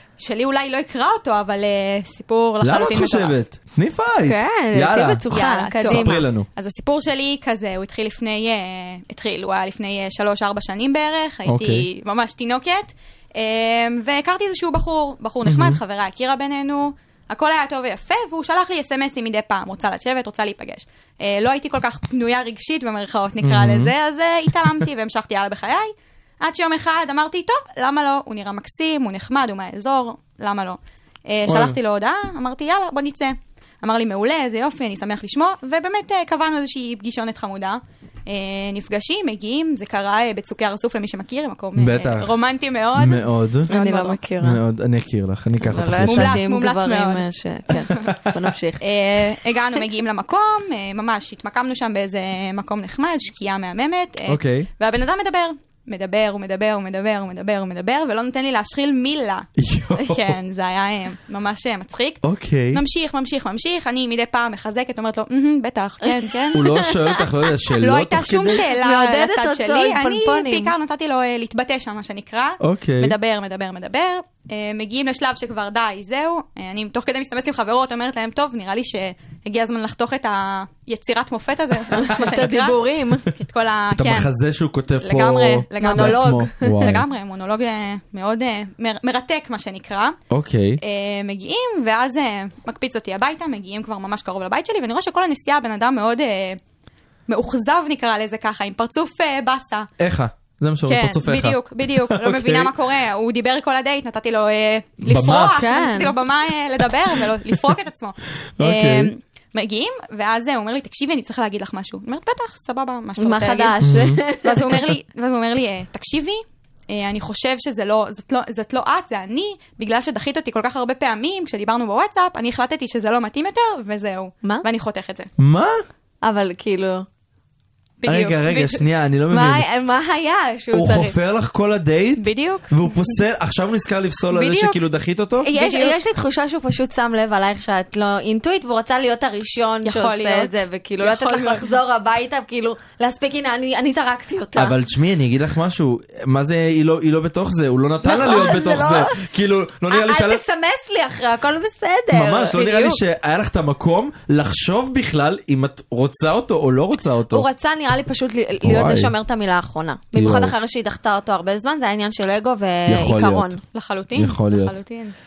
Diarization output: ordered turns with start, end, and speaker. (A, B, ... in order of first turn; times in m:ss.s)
0:00.2-0:03.4 A
0:02.6-0:05.2 B
0:04.2-0:06.2 C
0:05.3-0:44.2 A
0:05.8-0:06.5 B
0:11.4-0:11.8 B
0:15.4-0:15.8 B
0:23.4-0:23.9 B
0:31.5-0:31.8 B
0:41.7-0:42.4 B
0:42.9-0:43.7 B
0:43.7-0:44.6 C
0:44.4-0:46.4 B
0:45.6-0:48.8 C
0:46.0-0:47.2 A
0:47.9-0:48.2 B
0:48.8-0:59.5 A
0:54.3-0:54.7 B
0:59.6-1:00.4 B
1:00.0-1:02.2 A
1:02.2-1:02.8 B
1:02.7-1:06.8 A
1:06.0-1:07.2 C
1:06.5-1:08.6 B
1:07.8-1:22.8 A
1:08.4-1:10.7 C
1:12.6-1:13.2 B
1:21.9-1:23.3 C
1:23.3-1:24.3 A
1:23.9-1:27.1 B
1:25.0-1:30.2 A
1:25.8-1:26.7 C
1:30.3-1:30.8 B
1:30.8-1:36.6 A
1:37.3-1:39.9 A
1:40.0-1:42.7 B
1:40.8-2:05.3 A
1:45.0-1:45.5 B
1:45.3-1:46.1 C
1:48.6-1:49.1 B
1:53.2-1:54.9 C
1:53.8-1:54.2 B
2:05.4-2:05.8 B
2:06.2-2:07.0 C
2:08.0-2:08.8 A
2:08.0-2:09.6 B
2:09.3-2:11.1 C
2:10.7-2:15.5 B
2:12.2-2:12.7 A
2:14.3-2:14.8 A
2:15.4-2:16.0 A
2:15.5-2:24.7 C
2:19.8-2:21.7 A
2:24.6-2:30.4 B
2:28.0-2:29.2 C
2:29.9-2:32.6 C
2:32.1-2:37.4 B
2:32.6-2:33.0 A
2:37.3-2:43.6 C
2:38.6-2:39.1 B
2:40.1-2:40.5 B
2:42.9-2:43.5 B
2:43.7-2:45.1 A
2:44.1-2:44.8 B